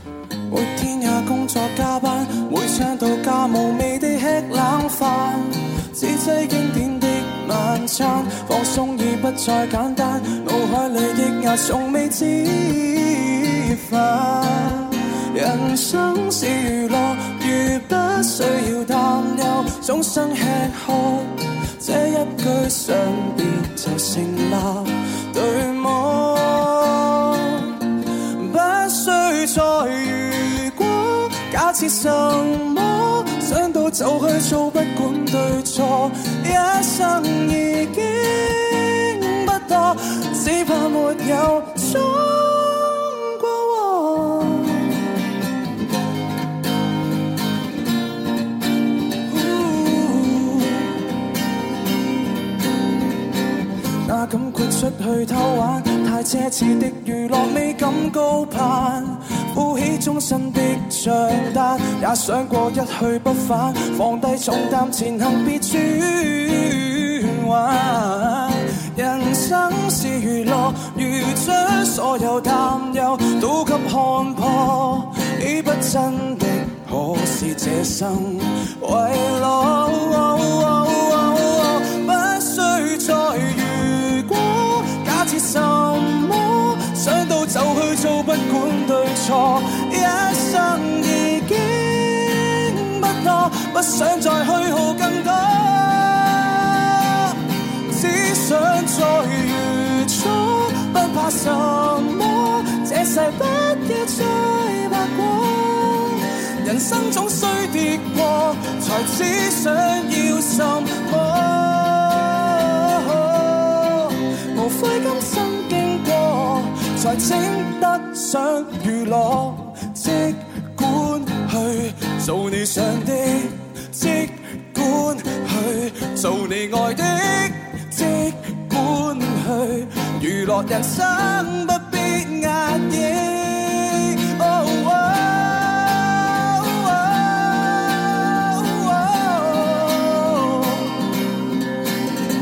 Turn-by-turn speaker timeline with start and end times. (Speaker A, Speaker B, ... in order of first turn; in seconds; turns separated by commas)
Speaker A: 0.5-27.8, Speaker A: 28.4-45.0, Speaker A: 49.3-51.0, Speaker A: 54.0-141.1